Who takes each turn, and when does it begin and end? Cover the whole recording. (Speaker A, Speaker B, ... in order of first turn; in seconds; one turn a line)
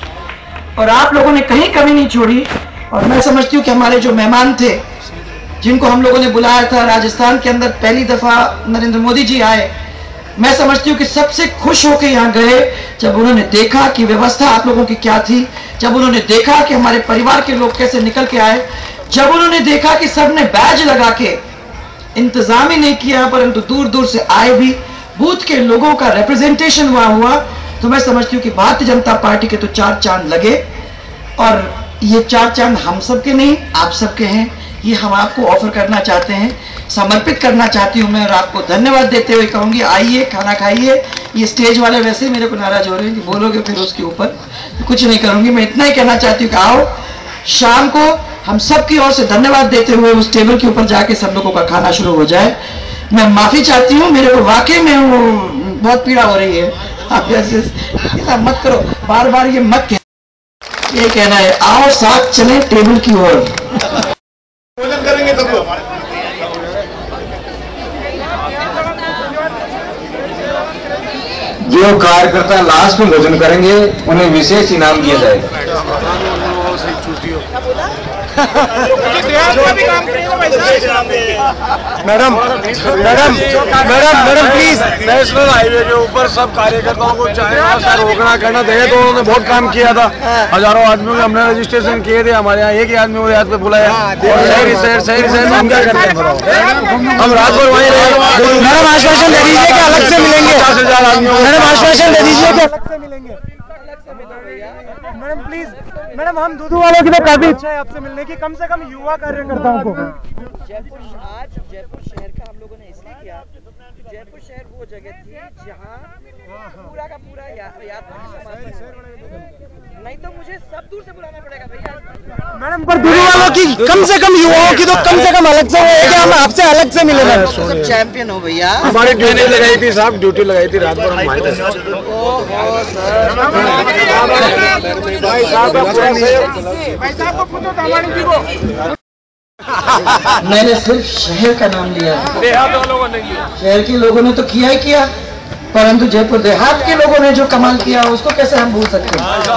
Speaker A: 0.8-4.8
Speaker A: 5.6-9.7
Speaker A: 10.4-21.4
Speaker A: 22.1-30.6
Speaker A: 31.4-46.9
Speaker A: 47.4-52.6
Speaker A: 53.1-60.0
Speaker A: 60.9-63.5
Speaker B: 71.6-75.5
Speaker C: 76.6-77.2
Speaker C: 79.2-80.8
Speaker D: 82.0-82.4
Speaker C: 82.3-102.5
Speaker D: 83.3-84.8
Speaker D: 98.5-100.7
Speaker D: 101.3-103.4
Speaker A: 104.0-105.0
Speaker D: 105.1-110.2
Speaker A: 110.7-116.1
Speaker A: 116.8-118.8
Speaker A: 120.0-122.0
Speaker D: 122.5-127.5
Speaker C: 127.5-127.8
Speaker A: 127.7-128.9
Speaker C: 128.8-131.8
Speaker C: 134.0-136.6
Speaker A: 140.3-142.5
Speaker A: 143.6-145.1
Speaker A: 145.7-149.3